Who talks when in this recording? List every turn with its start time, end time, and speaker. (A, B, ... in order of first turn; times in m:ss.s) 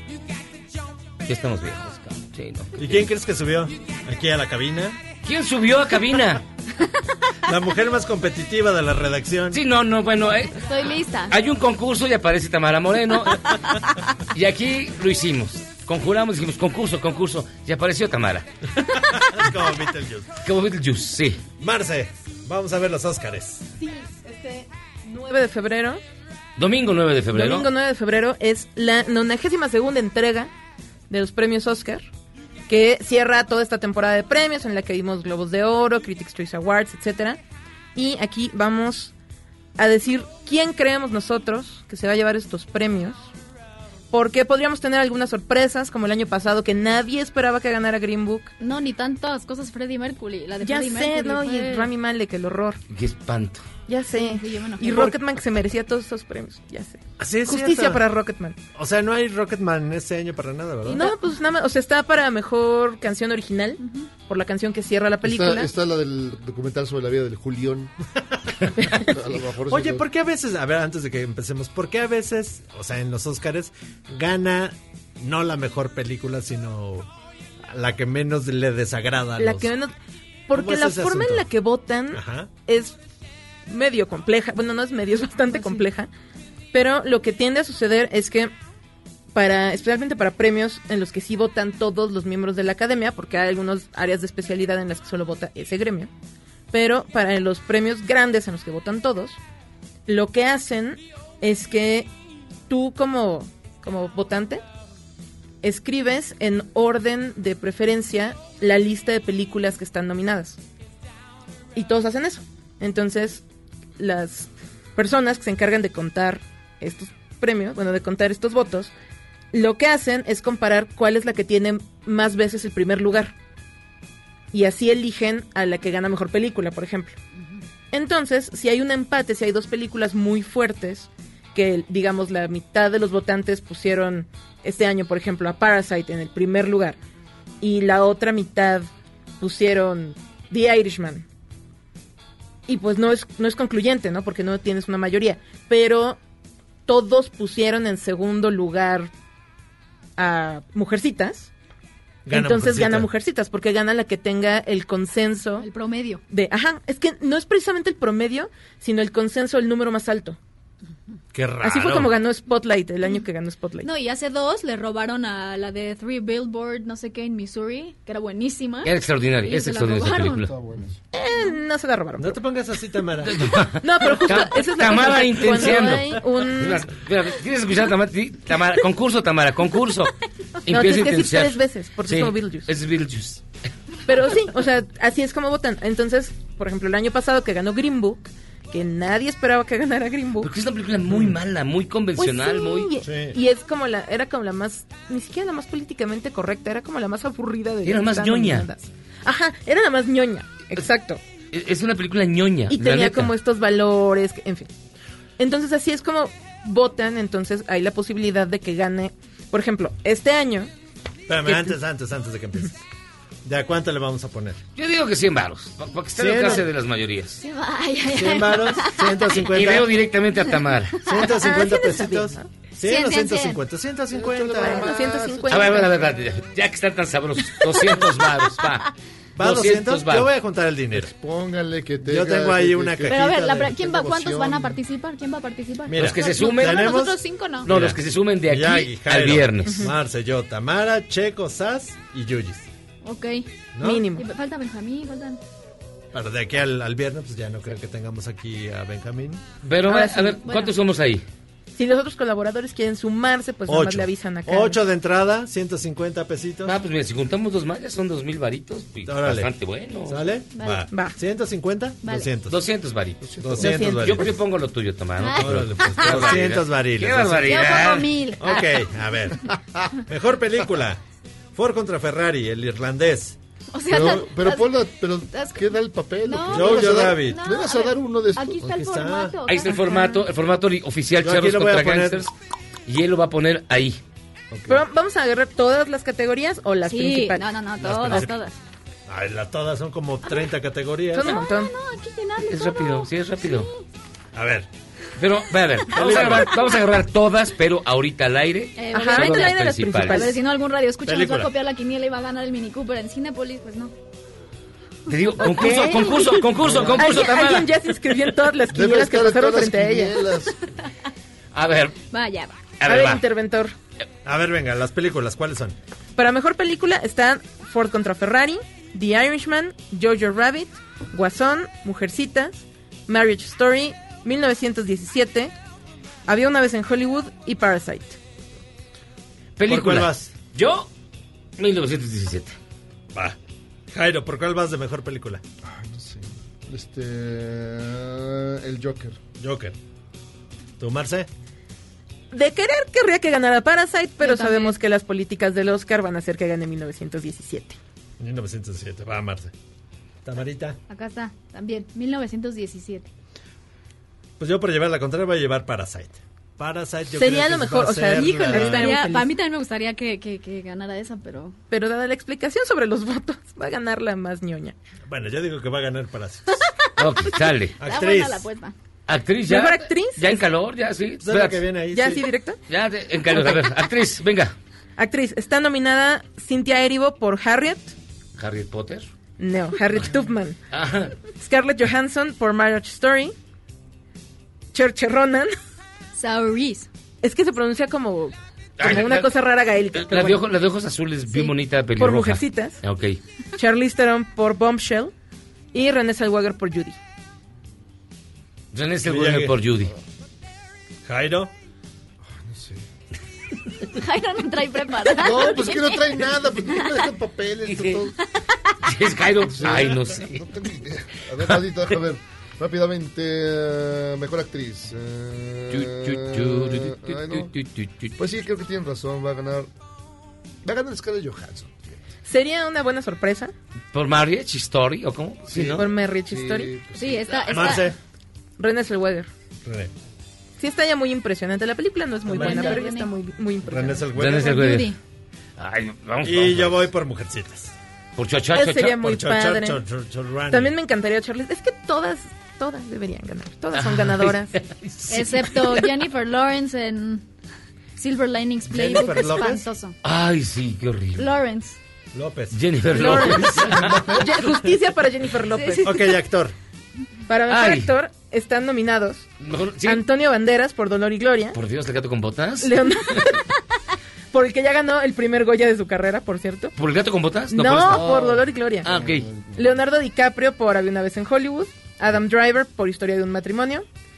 0:01.2-0:02.8 A
0:02.8-0:05.0 B
0:05.2-0:06.4 A
0:07.5-0:09.6 B
0:09.5-0:10.6 A
0:10.6-0:11.4 C
0:11.3-0:13.4 A
0:14.3-0:18.4 A
0:18.9-0:20.4 B
0:20.4-0:21.4 A
0:21.6-0:23.7 B
0:23.8-0:26.0 D
0:26.6-0:27.7 A
0:27.3-0:30.5 D
0:31.1-0:32.1 D
0:32.7-0:37.4 D
0:37.9-0:39.1 D
0:39.8-0:43.3 D
0:44.1-0:48.5 D
0:48.6-0:51.9 C
0:50.6-0:52.8 D
0:52.9-0:53.6 A
0:53.9-0:58.6 D
0:54.1-0:55.1 C
0:57.2-0:58.0 B
0:58.7-1:01.1 B
1:00.9-1:01.2 C
1:00.9-1:05.7 D
1:03.8-1:04.1 C
1:05.2-1:07.9 E
1:08.8-1:09.1 D
1:08.9-1:10.0 E
1:09.7-1:17.1 B
1:17.7-1:19.7 B
1:19.4-1:19.9 D
1:20.5-1:23.0 D
1:20.5-1:21.5 B
1:22.1-1:22.5 B
1:23.7-1:26.1 D
1:26.7-1:28.5 D
1:29.3-1:36.1 D
1:36.7-1:39.4 D
1:40.1-1:42.1 D
1:42.7-1:44.6 D
1:45.6-1:50.6 D
1:51.7-1:53.4 D
1:54.0-1:58.9 D
1:59.5-2:03.3 D
2:04.5-2:07.2 D
2:07.9-2:17.0 D
2:17.6-2:18.9 D
2:19.4-2:21.2 D
2:22.7-2:26.2 D
2:26.9-2:29.1 D
2:30.2-2:31.5 D
2:32.2-2:33.1 B
2:32.3-2:35.7 D
2:35.6-2:36.2 C
2:36.3-2:40.4 D
2:41.3-2:42.1 B
2:41.6-2:43.9 D
2:43.8-2:50.5 C
2:48.8-2:50.5 A
2:50.5-2:50.9 E
2:51.1-2:52.4 D
2:52.2-2:53.5 B
2:53.2-3:00.1 A
2:53.8-2:56.8 D
3:00.6-3:03.4 A
3:00.7-3:02.7 D
3:04.1-3:10.5 D
3:10.4-3:12.9 A
3:11.1-3:11.4 B
3:12.2-3:21.2 D
3:13.0-3:13.4 B
3:17.8-3:18.7 A
3:21.5-3:23.3 A
3:22.7-3:24.7 D
3:25.4-3:30.7 D
3:31.3-3:32.8 B
3:31.5-3:31.7 D
3:33.4-3:34.6 B
3:34.8-3:37.4 A
3:36.2-3:36.7 B
3:37.4-3:39.4 C
3:38.1-3:39.9 B
3:39.5-3:41.0 A
3:41.0-3:44.9 B
3:41.2-3:41.8 C
3:41.4-3:42.5 D
3:42.8-3:43.6 C
3:44.1-3:45.9 E
3:44.6-3:45.9 D
3:45.5-3:50.3 A
3:49.4-3:51.1 B
3:50.9-3:54.8 E
3:52.0-3:53.7 B
3:53.1-3:57.7 C
3:55.9-4:02.7 B
3:56.0-3:57.0 A
3:57.6-3:59.9 A
3:59.6-3:59.9 D
4:03.0-4:05.4 C
4:03.7-4:04.0 B
4:03.8-4:04.2 D
4:06.1-4:09.4 B
4:09.6-4:11.2 A
4:09.9-4:10.4 D
4:10.4-4:10.7 C
4:11.7-4:14.8 D
4:13.7-4:16.8 B
4:16.6-4:20.3 A
4:19.0-4:19.5 B
4:20.1-4:22.6 B
4:20.5-4:20.8 C
4:20.9-4:21.2 D
4:22.0-4:22.3 C
4:22.5-4:28.1 A
4:23.2-4:23.9 E
4:23.4-4:24.4 B
4:23.6-4:24.1 D
4:25.2-4:26.2 C
4:25.3-4:27.7 B
4:27.5-4:28.9 C
4:28.4-4:29.4 B
4:29.5-4:29.9 E
4:30.1-4:31.0 B
4:31.5-4:33.4 B
4:33.7-4:35.7 C
4:33.9-4:38.8 E
4:36.2-4:40.2 C
4:36.5-4:37.5 B
4:38.6-4:39.4 B
4:39.5-4:42.3 A
4:39.7-4:40.2 D
4:41.2-4:42.2 B
4:42.9-4:44.0 A
4:44.5-4:44.8 B
4:44.7-4:47.4 D
4:46.8-4:48.6 C
4:47.8-4:48.4 B
4:49.1-4:51.4 B
4:51.1-4:51.7 D
4:51.2-4:53.8 C
4:52.4-4:53.7 A
4:54.3-4:54.7 B
4:55.2-5:00.3 A
4:55.9-4:56.6 B
4:58.8-5:03.9 C
4:58.9-5:00.4 D
5:01.0-5:01.5 B
5:05.1-5:08.2 A
5:05.4-5:10.1 D
5:06.6-5:06.9 B
5:06.7-5:06.9 E
5:08.7-5:10.6 E
5:11.5-5:12.0 A
5:12.1-5:12.6 C
5:12.8-5:13.2 A
5:12.8-5:13.7 D
5:14.2-5:15.7 B
5:16.2-5:25.5 D
5:26.3-5:28.2 D
5:29.6-5:30.9 A
5:29.7-5:30.3 B
5:31.6-5:32.6 A
5:33.9-5:35.4 B
5:35.7-5:39.2 E
5:39.4-5:39.8 B
5:40.8-5:41.3 B
5:42.3-5:47.8 D
5:44.2-5:44.8 C
5:48.2-5:49.5 B
5:50.2-5:50.8 B
5:50.9-5:53.1 C
5:54.4-5:58.9 B
5:57.1-5:59.3 D
5:58.5-6:01.5 C
6:01.7-6:04.7 D
6:05.1-6:06.6 B
6:07.0-6:07.8 A
6:07.8-6:08.5 B
6:07.8-6:08.7 C
6:09.1-6:11.6 A
6:09.5-6:10.4 D
6:11.2-6:12.3 B
6:11.9-6:12.6 D
6:12.7-6:14.5 A
6:13.3-6:13.6 D
6:15.0-6:17.9 D
6:18.4-6:19.1 A
6:19.4-6:20.6 D
6:20.7-6:21.1 A
6:21.4-6:23.3 D
6:24.7-6:25.5 D
6:26.1-6:26.9 C
6:27.2-6:30.4 D
6:28.8-6:29.3 A
6:29.9-6:33.2 A
6:32.0-6:32.8 D
6:33.6-6:35.1 D
6:35.7-6:37.0 D
6:38.7-6:39.9 A
6:39.0-6:39.6 B
6:41.0-6:41.5 B
6:42.3-6:42.8 E
6:43.9-6:47.0 C
6:45.2-6:48.1 E
6:47.6-6:48.1 A
6:48.8-6:50.4 A
6:49.5-6:57.5 E
6:55.7-6:58.1 A
6:58.2-6:59.7 E
7:00.6-7:02.0 E
7:02.2-7:03.5 D
7:03.9-7:05.8 A
7:05.5-7:07.8 E
7:05.8-7:06.7 D
7:06.9-7:07.9 C
7:07.5-7:08.0 B
7:08.6-7:09.3 D
7:09.6-7:09.9 B
7:10.6-7:14.1 D
7:12.3-7:12.7 B
7:12.3-7:13.1 C
7:13.6-7:14.6 B
7:14.1-7:14.9 A
7:14.4-7:15.0 C
7:15.6-7:16.9 A
7:16.2-7:17.7 B
7:18.2-7:19.0 A
7:18.5-7:19.8 D
7:18.8-7:20.7 B
7:20.5-7:24.5 D
7:23.7-7:25.9 A
7:25.1-7:27.2 C
7:28.0-7:29.9 C
7:28.7-7:29.6 B
7:30.0-7:31.3 A
7:31.2-7:31.8 C
7:32.1-7:33.7 B
7:32.5-7:34.1 A
7:32.9-7:35.9 D
7:33.6-7:34.3 E
7:35.4-7:36.1 C
7:35.8-7:36.5 B
7:37.3-7:39.3 D
7:37.5-7:37.9 A
7:39.4-7:40.0 A
7:39.8-7:41.6 D
7:41.5-7:43.3 A
7:42.6-7:43.4 D
7:44.3-7:46.7 D
7:46.8-7:48.2 A
7:47.5-7:48.9 D
7:47.9-7:49.7 E
7:48.8-7:49.3 A
7:49.6-7:53.8 D